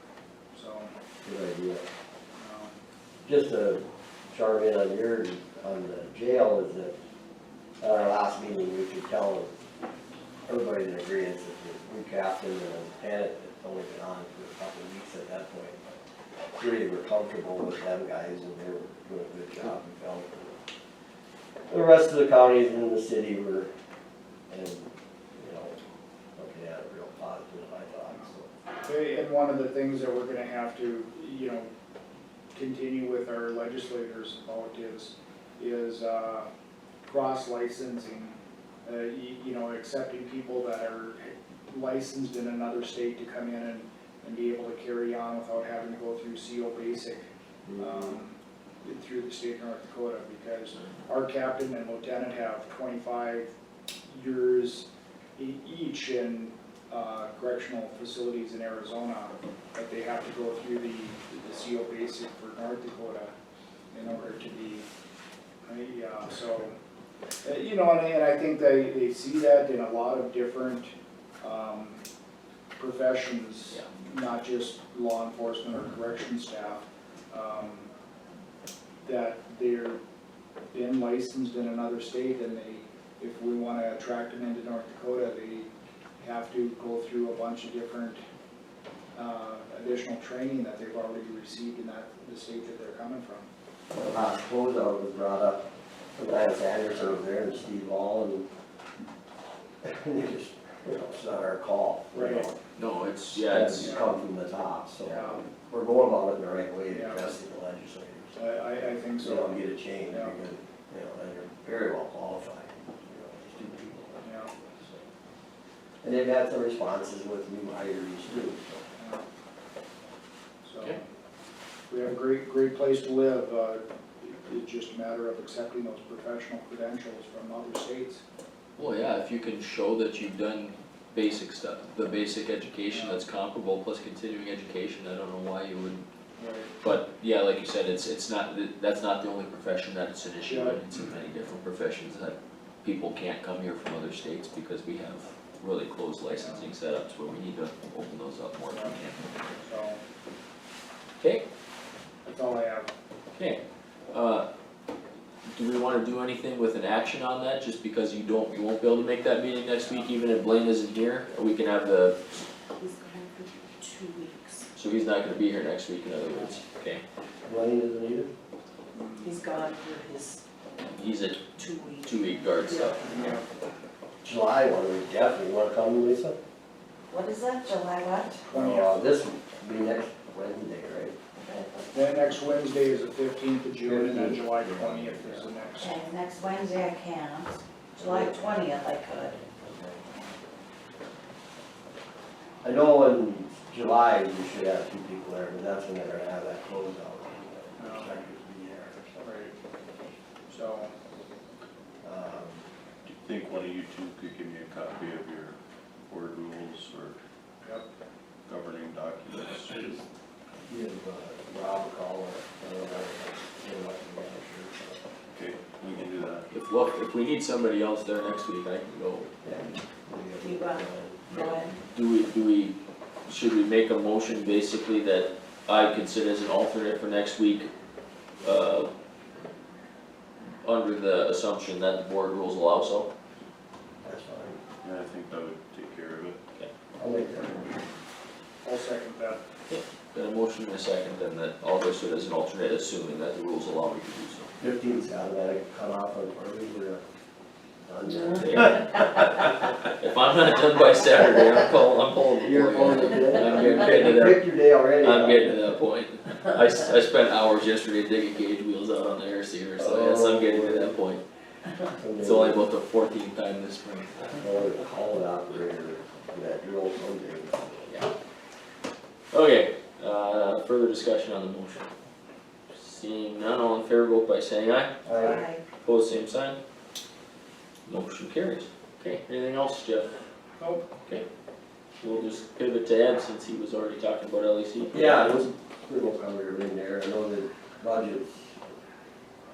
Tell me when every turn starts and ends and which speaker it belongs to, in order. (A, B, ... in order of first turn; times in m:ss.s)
0:00.5-0:00.9 A
0:01.2-0:01.8 B
0:02.4-0:02.7 A
0:03.2-0:06.9 B
0:07.8-0:09.5 B
0:10.5-0:16.0 B
0:16.6-0:20.6 B
0:21.7-0:23.7 B
0:24.5-0:25.8 B
0:26.4-0:28.5 B
0:28.8-0:31.7 A
0:32.5-0:36.5 A
0:37.0-0:47.2 A
0:47.6-0:48.2 B
0:47.8-0:53.5 A
0:54.1-1:03.3 A
1:03.9-1:04.8 A
1:05.6-1:06.7 A
1:07.4-1:12.0 A
1:12.8-1:17.9 A
1:19.0-1:20.0 A
1:20.7-1:25.7 A
1:26.2-1:28.2 A
1:29.1-1:33.5 A
1:33.9-1:38.5 B
1:39.8-1:42.6 B
1:42.1-1:42.5 A
1:42.8-1:44.0 C
1:43.4-1:48.3 B
1:45.0-1:45.4 A
1:46.9-1:47.3 A
1:48.3-1:50.3 A
1:49.2-1:54.2 B
1:54.2-1:54.5 A
1:56.0-1:58.9 B
1:59.0-1:59.2 A
2:00.6-2:01.0 A
2:01.9-2:08.2 A
2:08.8-2:16.0 C
2:12.9-2:13.2 A
2:16.4-2:16.7 A
2:16.8-2:29.2 C
2:20.4-2:20.8 A
2:26.3-2:26.7 A
2:28.6-2:30.0 A
2:31.2-2:31.4 C
2:32.2-2:32.9 A
2:33.3-2:34.5 C
2:35.5-2:42.2 C
2:42.8-2:44.7 D
2:44.7-2:47.0 C
2:47.4-2:48.3 B
2:48.9-2:49.4 A
2:49.2-2:50.4 D
2:50.9-2:53.0 C
2:51.6-2:53.3 D
2:53.0-2:53.5 A
2:54.2-2:56.4 B
2:57.1-2:58.4 D
2:58.4-2:59.0 A
2:58.5-3:01.1 B
3:01.4-3:01.9 D
3:01.9-3:06.0 A
3:03.8-3:05.5 B
3:05.8-3:09.4 D
3:08.0-3:08.5 B
3:09.6-3:10.0 B
3:12.6-3:19.3 B
3:17.8-3:18.1 A
3:19.2-3:19.5 A
3:20.5-3:20.9 A
3:22.0-3:22.6 B
3:23.0-3:27.2 E
3:28.5-3:30.0 E
3:30.6-3:35.0 B
3:35.3-3:36.5 E
3:36.5-3:39.5 C
3:39.4-3:41.6 B
3:40.4-3:41.7 D
3:41.7-3:47.7 C
3:48.4-3:48.9 C
3:50.6-3:53.1 C
3:54.0-3:54.6 B
3:54.8-3:56.4 E
3:57.0-3:57.7 B
3:58.6-3:59.4 A
3:59.7-4:04.5 C
4:04.6-4:07.0 B
4:07.8-4:08.9 B
4:08.1-4:21.2 C
4:12.4-4:15.8 B
4:19.8-4:20.9 B
4:22.0-4:22.6 B
4:22.2-4:24.3 C
4:24.4-4:27.9 B
4:29.3-4:31.9 C
4:32.7-4:35.0 C
4:35.0-4:35.5 B
4:35.2-4:35.6 D
4:35.8-4:36.6 C
4:37.9-4:40.2 C
4:40.6-4:40.8 A
4:42.0-4:45.4 C
4:44.9-4:48.6 B